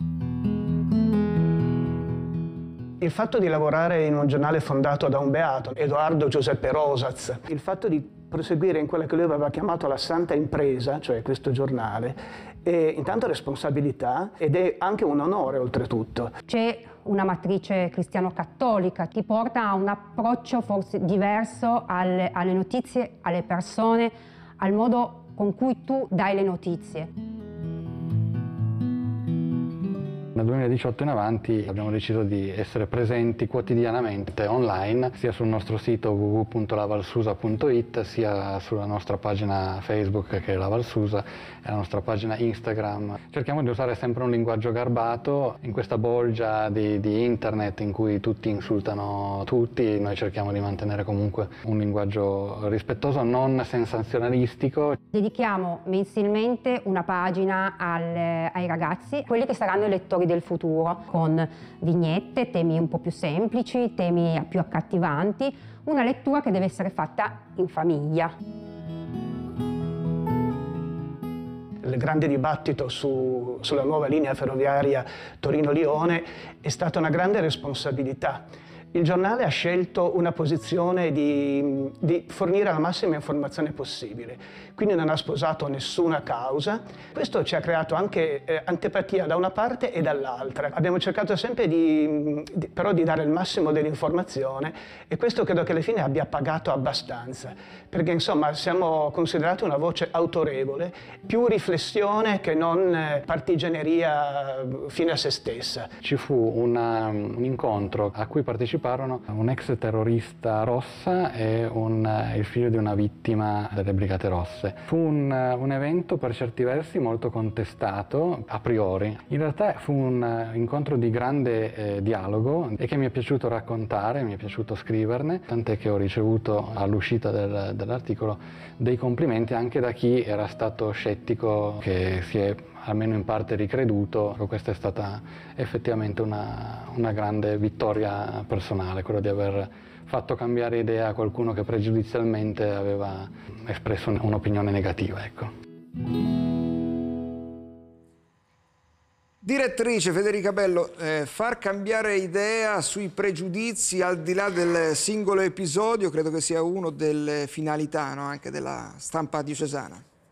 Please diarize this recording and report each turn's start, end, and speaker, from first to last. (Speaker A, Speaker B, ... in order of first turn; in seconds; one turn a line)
Speaker A: 3.0-16.4
Speaker B: 16.5-27.1
Speaker C: 30.4-55.0
Speaker B: 55.1-68.3
Speaker A: 71.8-105.9
Speaker C: 106.0-145.5
Speaker D: 149.4-160.0